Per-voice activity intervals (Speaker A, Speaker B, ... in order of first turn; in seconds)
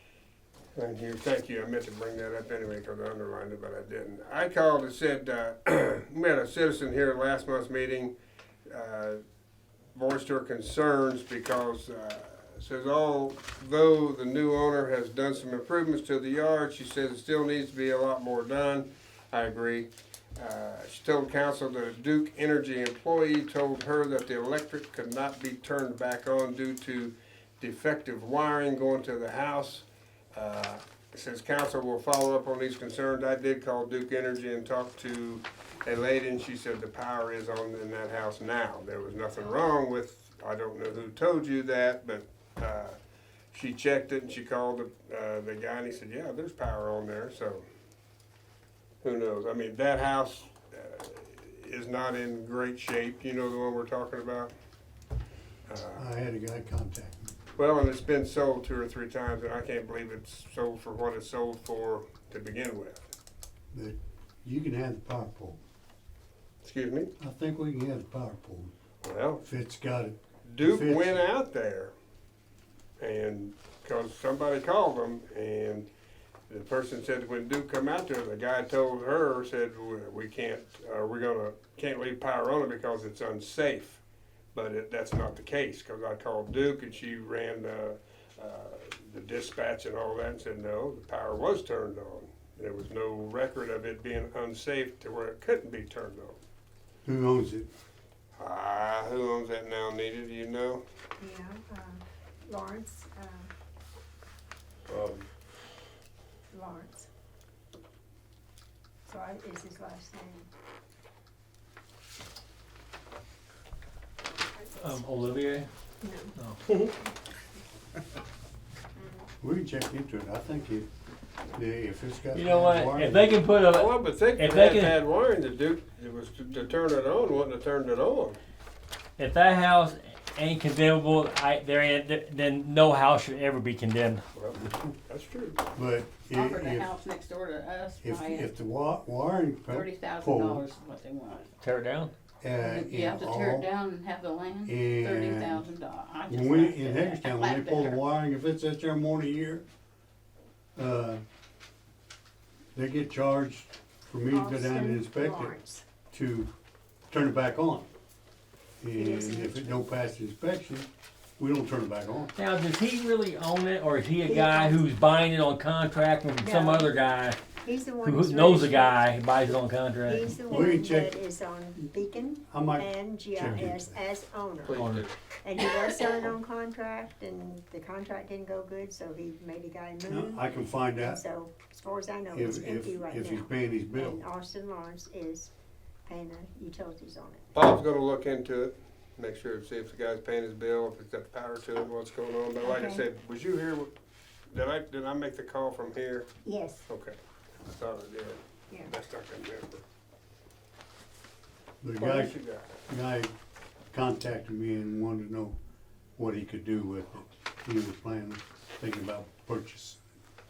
Speaker A: 0.8-8.1, 8.7-9.2, 9.9-43.0, 43.5-47.6, 49.0-54.5, 55.7-56.1, 57.6-63.1, 66.6-67.1, 69.0-69.4, 70.5-71.9, 73.0-75.9, 76.5-84.0, 84.5-96.4, 98.4-100.8, 104.9-105.3, 116.7-116.9, 123.7-128.4, 134.3-135.6, 174.6-175.1, 187.5-193.9, 194.5-196.3, 196.9-199.8, 202.0-202.8
Speaker B: 56.0-57.3, 63.7-65.6, 67.2-68.7, 69.4-71.2, 97.0-97.7, 119.4-120.9, 121.5-123.3, 134.6-134.9, 135.8-136.9, 138.0-140.6, 142.4-143.7, 144.6-145.7, 146.3-149.6, 150.8-151.2, 152.8-155.6, 156.1-156.5, 157.1-157.9, 158.8-162.3, 170.5-171.2, 172.5-174.0, 180.1-181.2, 182.3-184.2, 201.8-202.3, 202.9-203.3, 203.9-205.6, 206.2-210.0
Speaker C: 101.2-103.5, 106.5-107.1, 109.1-110.5, 116.0-116.3, 119.0-119.3, 154.3-155.8, 159.0-159.8, 164.3-164.8, 166.4-166.9, 167.6-169.0, 170.1-174.8, 175.4-180.4, 181.0-185.5, 186.1-187.4, 192.6-193.0, 196.4-196.9
Speaker D: 114.8-115.7, 122.3-125.0, 129.2-134.2, 141.6-142.1, 162.4-167.4, 168.0-170.3, 174.7-175.1
Speaker E: 136.3-138.5, 139.7-141.5, 142.6-148.0